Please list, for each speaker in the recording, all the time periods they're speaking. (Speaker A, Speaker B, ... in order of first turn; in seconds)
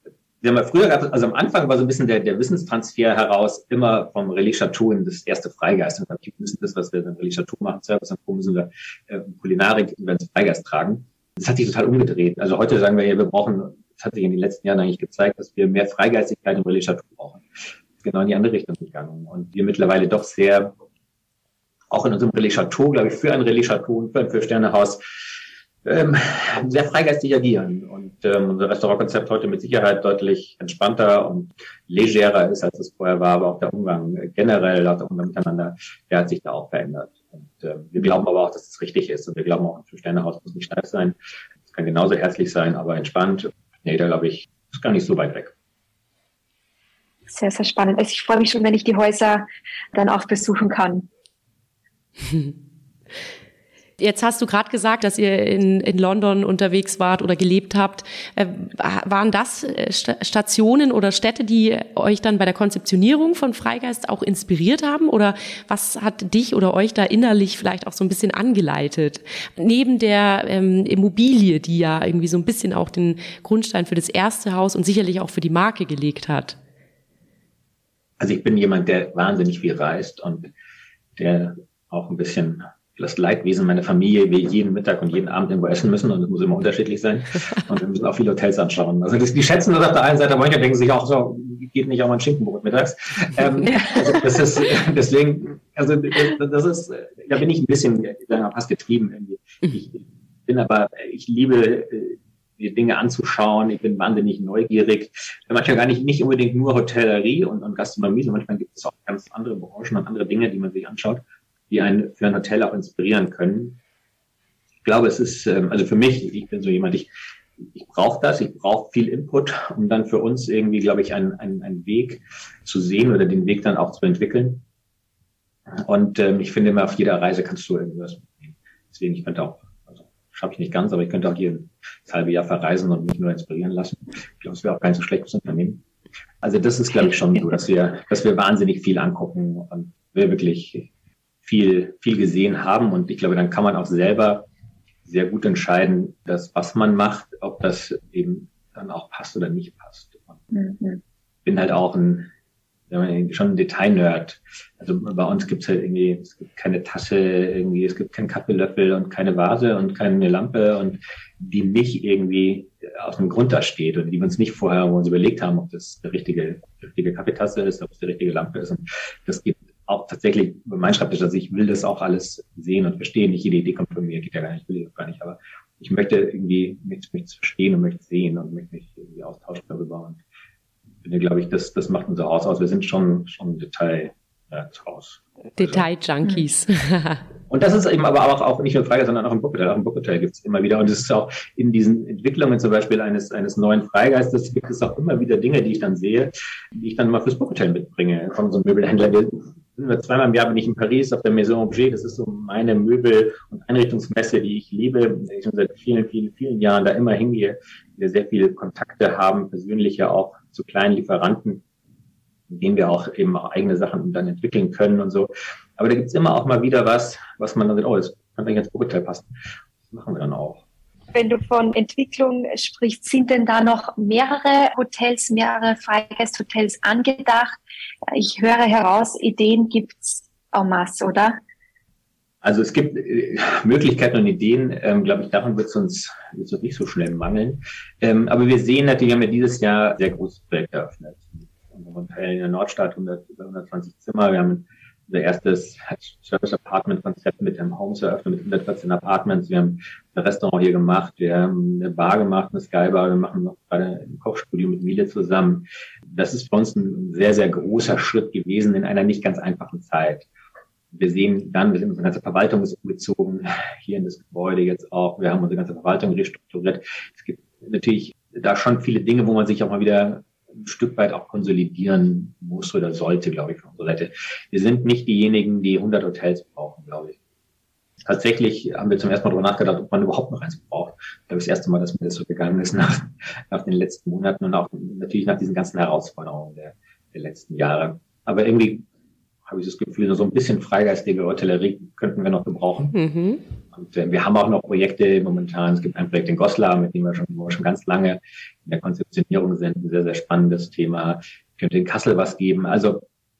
Speaker A: 0.4-17.4, 18.0-20.7, 21.9-25.0, 25.8-41.2, 41.7-45.5, 78.2-80.5, 81.2-113.8, 114.8-124.6, 125.8-135.8, 136.4-140.9, 141.4-144.5, 145.1-150.4, 151.4-152.3, 152.9-180.2, 181.0-185.9, 187.5-211.6, 212.5-219.3, 219.9-220.6, 232.4-260.3, 260.9-277.2, 278.0-288.8, 289.5-292.9, 293.7-303.0
Speaker B: 47.3-51.1, 150.5-151.0, 221.1-227.6, 228.1-231.4
Speaker C: 52.2-52.5, 54.0-76.6, 185.6-187.2, 292.9-293.4